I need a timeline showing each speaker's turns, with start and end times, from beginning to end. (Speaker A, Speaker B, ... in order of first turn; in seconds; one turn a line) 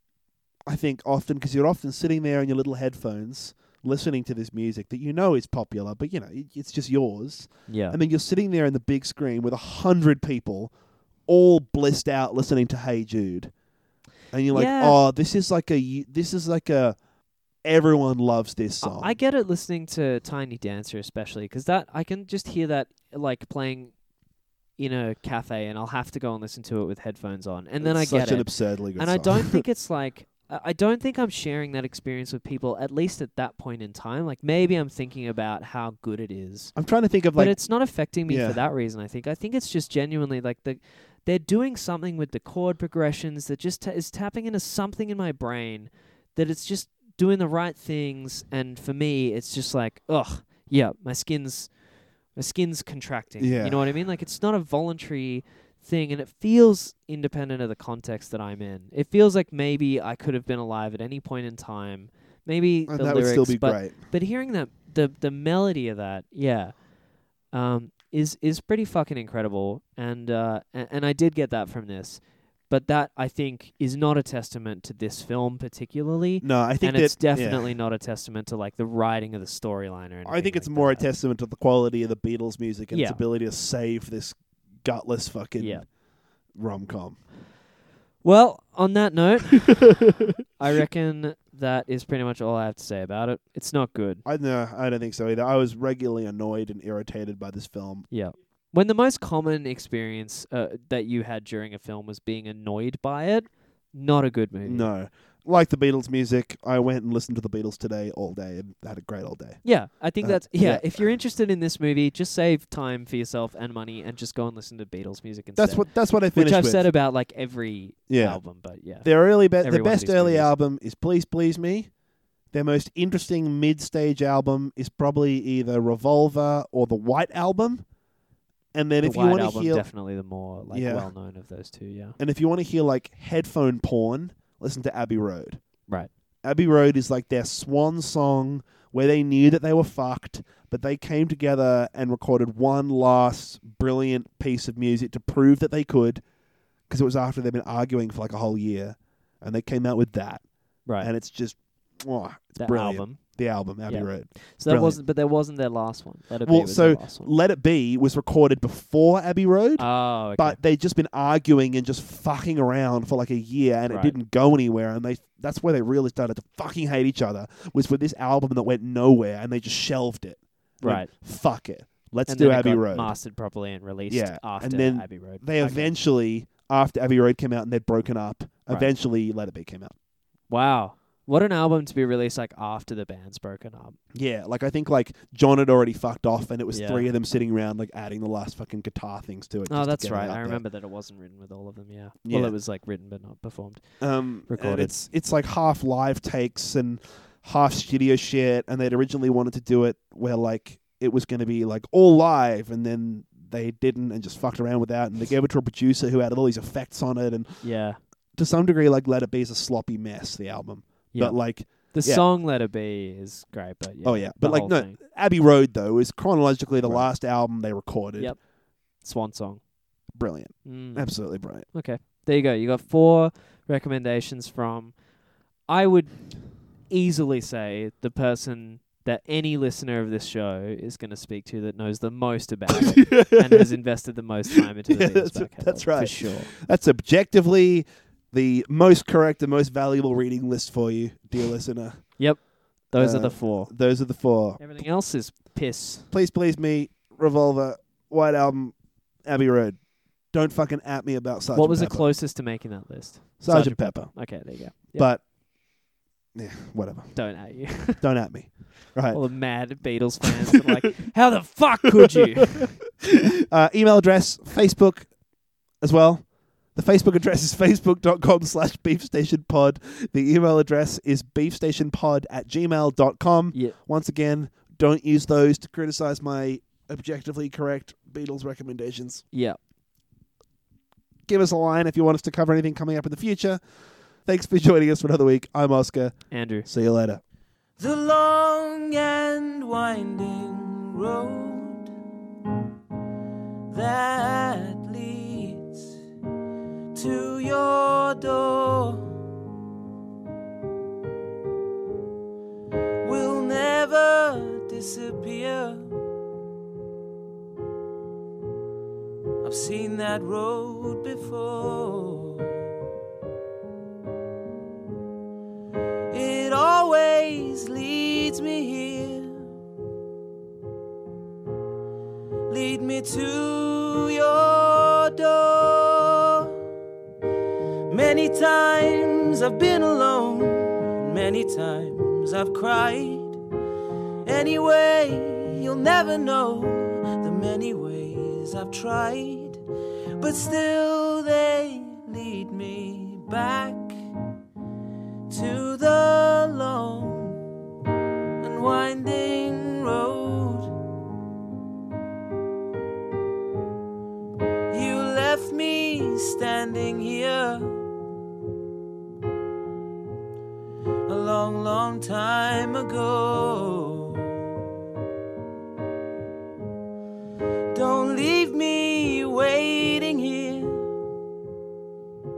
Speaker A: 0.7-10.7
Speaker B: 7.7-8.0
Speaker A: 11.3-13.5
Speaker A: 14.3-17.0
Speaker B: 14.5-15.0
Speaker A: 17.6-19.2
Speaker B: 18.8-23.9
Speaker B: 24.8-36.7
Speaker A: 27.8-29.6
Speaker A: 36.8-37.6
Speaker B: 37.4-51.7
Speaker A: 38.3-38.6
Speaker B: 52.4-66.8
Speaker A: 53.4-53.8
Speaker A: 62.9-64.0
Speaker B: 67.5-81.1
Speaker A: 76.4-77.7
Speaker A: 80.2-85.8
Speaker B: 82.9-83.2
Speaker B: 85.6-85.8
Speaker A: 86.5-87.2
Speaker B: 88.2-90.0
Speaker B: 90.6-94.2
Speaker A: 94.2-98.1
Speaker B: 98.1-104.9
Speaker A: 104.6-109.6
Speaker B: 109.6-120.5
Speaker A: 110.2-111.0
Speaker A: 115.6-116.9
Speaker A: 118.1-118.4
Speaker A: 119.0-121.9
Speaker A: 122.5-127.8
Speaker A: 128.7-129.8
Speaker B: 129.0-132.2
Speaker A: 130.7-131.1
Speaker A: 132.2-135.6
Speaker A: 136.4-146.2
Speaker A: 146.9-150.4
Speaker A: 151.0-155.0
Speaker B: 152.6-153.2
Speaker B: 153.8-157.3
Speaker A: 156.4-173.1
Speaker B: 159.8-160.6
Speaker B: 163.9-164.2
Speaker B: 170.8-171.1
Speaker B: 172.3-175.9
Speaker A: 174.1-179.9
Speaker B: 180.5-184.0
Speaker A: 184.1-190.6
Speaker B: 186.7-187.1
Speaker B: 189.7-193.8
Speaker A: 192.2-192.5
Speaker A: 194.0-207.6
Speaker B: 194.5-194.9
Speaker B: 207.6-208.0
Speaker A: 208.3-212.2
Speaker B: 211.1-215.0
Speaker A: 214.0-218.3
Speaker B: 216.8-217.1
Speaker B: 219.0-219.6
Speaker A: 220.1-221.7
Speaker B: 220.6-221.1
Speaker B: 221.7-224.9
Speaker B: 225.7-226.2
Speaker B: 226.9-236.5
Speaker A: 232.7-233.7
Speaker A: 234.5-242.2
Speaker B: 242.2-243.7
Speaker A: 242.9-244.6
Speaker B: 244.6-246.1
Speaker A: 246.1-249.8
Speaker A: 250.3-252.1
Speaker B: 251.5-255.1
Speaker A: 253.4-254.3
Speaker A: 254.8-255.2
Speaker A: 256.3-257.3
Speaker B: 257.1-258.0
Speaker A: 257.9-259.2
Speaker B: 259.1-262.8
Speaker A: 263.0-265.1
Speaker A: 265.8-279.2
Speaker B: 279.3-279.6
Speaker A: 281.3-283.6
Speaker A: 284.2-287.2
Speaker B: 286.3-286.7
Speaker C: 287.8-291.9
Speaker C: 293.7-295.9
Speaker C: 296.9-299.2
Speaker C: 303.0-305.9
Speaker C: 309.4-312.6
Speaker C: 316.1-319.4
Speaker C: 322.5-326.5
Speaker C: 327.9-333.4
Speaker C: 334.2-339.6
Speaker C: 340.2-343.9
Speaker C: 345.3-347.4
Speaker C: 348.4-350.7
Speaker C: 354.7-357.8
Speaker C: 361.1-364.3
Speaker C: 367.7-370.9